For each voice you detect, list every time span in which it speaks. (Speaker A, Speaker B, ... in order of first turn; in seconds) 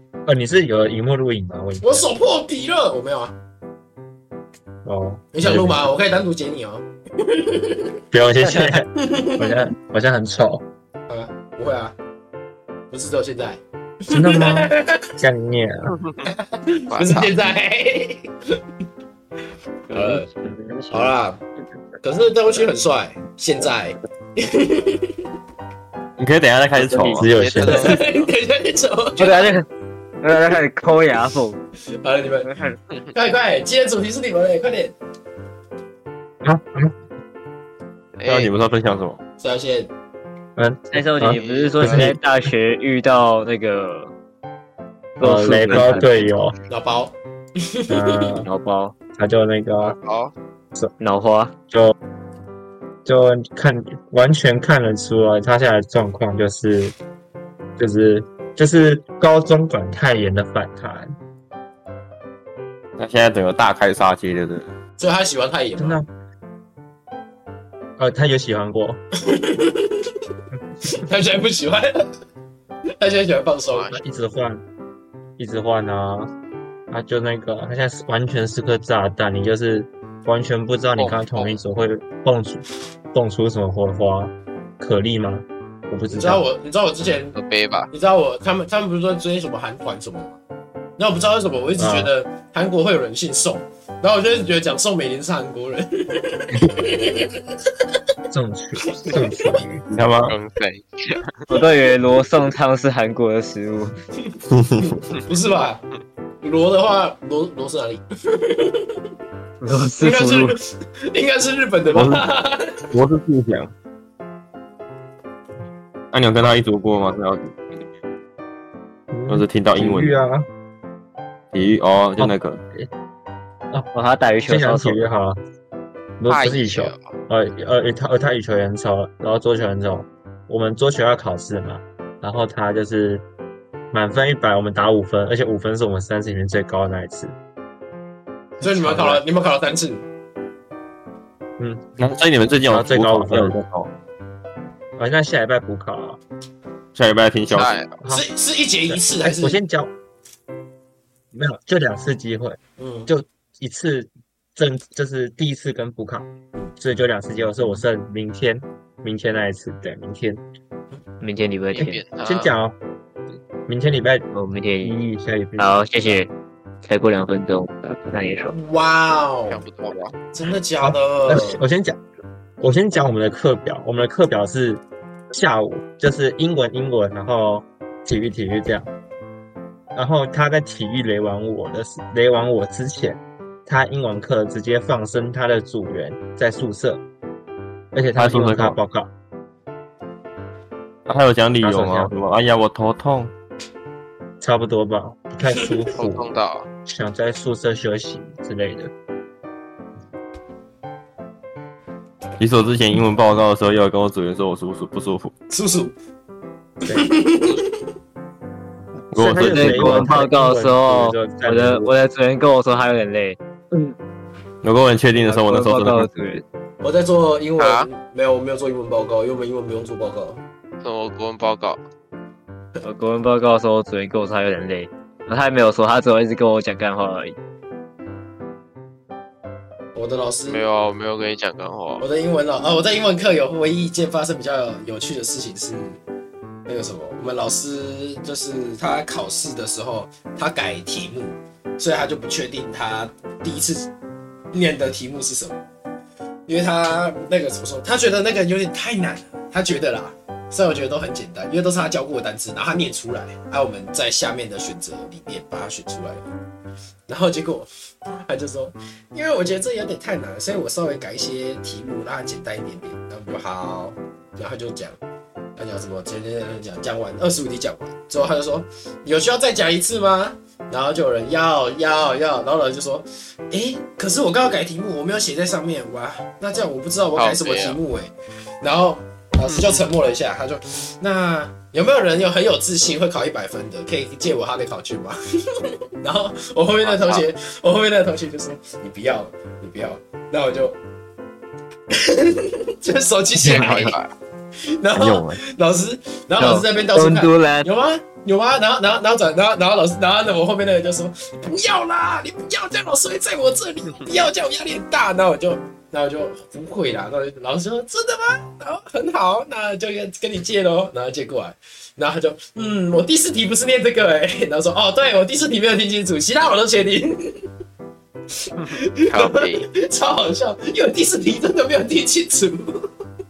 Speaker A: 0.2-2.1, 4.8-5.9, 8.1-10.6, 14.1-15.9, 27.2-28.0, 36.4-36.9, 40.5-42.5, 45.2-46.6, 47.9-48.5, 49.1-50.0, 51.7-51.9, 53.0-56.9, 57.8-61.2, 65.8-66.1, 68.0-69.0, 74.0-74.6, 75.4-76.3, 76.9-86.5, 91.8-92.1, 98.3-99.8, 119.1-120.5, 122.2-122.9, 124.5-125.4, 126.2-133.2, 133.9-137.3, 138.6-139.2, 141.6-142.0, 142.5-143.6, 145.0-146.2, 148.0-148.3, 148.9-149.9, 151.3-160.4, 162.2-162.8, 163.7-164.3, 164.8-166.2, 170.8-172.0, 172.6-178.9, 179.9-187.0, 187.9-189.1, 191.6-192.1, 194.4-196.3, 196.8-198.9, 209.1-211.9
Speaker B: 1.8-3.3, 5.3-8.0, 9.0-9.6, 11.1-11.9, 12.9-15.1, 16.3-18.3, 19.9-20.2, 20.9-21.4, 22.0-25.1, 27.7-29.5, 32.0-32.5, 33.1-34.9, 39.4-39.9, 41.8-42.1, 46.7-48.4, 65.0-66.0, 69.2-70.1, 70.8-72.1, 73.0-74.0, 86.1-87.3, 87.9-90.3, 91.0-97.4, 99.0-99.6, 104.2-105.8, 106.4-109.0, 110.0-112.9, 138.6-140.0, 148.1-149.6, 152.8-153.1, 168.5-169.6, 170.3-171.6, 205.5-205.9, 206.8-207.8, 216.8-220.4, 229.9-230.6, 232.0-236.0, 236.7-243.9, 244.5-245.6, 246.5-256.3, 257.1-265.0, 265.6-290.8, 291.9-294.0, 294.6-317.4, 318.7-322.9
Speaker C: 8.4-8.7, 16.9-17.3, 27.3-28.3, 38.2-38.5, 41.3-41.8, 49.8-50.3, 73.7-74.0, 81.0-81.3, 87.3-87.9, 100.3-101.3, 126.3-127.1, 147.4-148.0, 161.7-162.5, 169.5-170.1, 195.9-196.7, 217.6-217.9, 220.8-221.8, 230.5-232.0, 277.1-277.8, 279.5-279.8, 286.8-287.3, 293.4-294.1, 318.6-319.7
Speaker D: 19.9-21.1, 26.8-27.3, 29.2-29.6, 30.2-31.6, 32.4-32.8, 40.9-44.1, 45.2-46.1, 48.5-48.9, 51.0-51.5, 101.5-103.9, 109.6-110.5, 123.9-125.0, 161.2-162.0, 164.3-164.9, 165.6-166.3, 166.8-168.5, 209.5-213.9, 215.2-216.4, 222.8-227.3, 293.4-293.8, 296.4-297.7
Speaker E: 26.2-27.3, 38.2-39.2, 63.0-64.7, 99.9-100.3, 104.5-105.0, 111.9-112.2, 112.9-113.7, 116.1-117.6, 119.3-120.2, 121.5-122.6, 142.0-143.9, 146.9-147.8, 188.2-188.8, 191.1-193.3, 202.4-205.3, 209.1-210.2, 214.6-216.1, 295.0-295.4